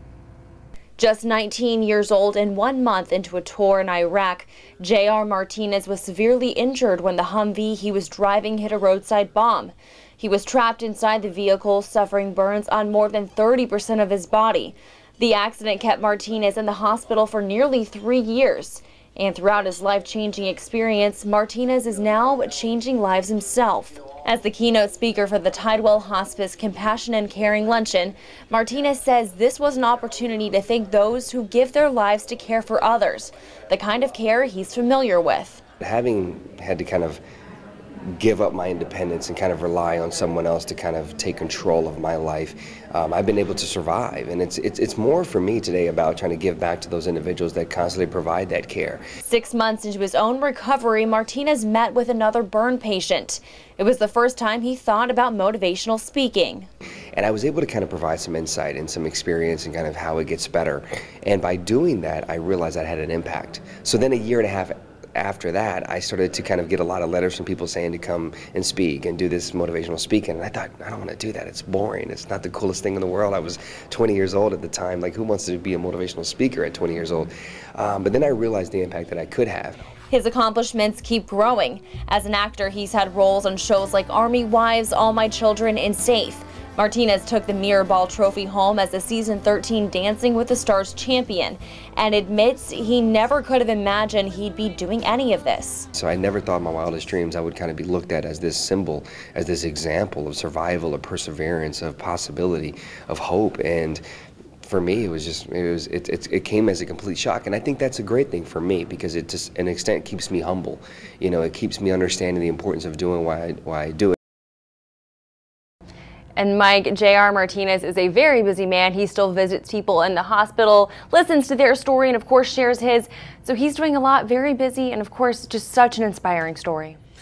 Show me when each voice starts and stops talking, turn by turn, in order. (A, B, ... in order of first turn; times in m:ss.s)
0:01.0-0:35.6 A
0:35.8-0:37.2 B
0:38.0-0:49.0 B
0:49.2-0:56.7 A
0:57.1-1:19.8 B
1:20.1-1:35.9 A
1:35.9-1:44.0 B
1:44.6-1:54.2 B
1:56.4-2:07.0 A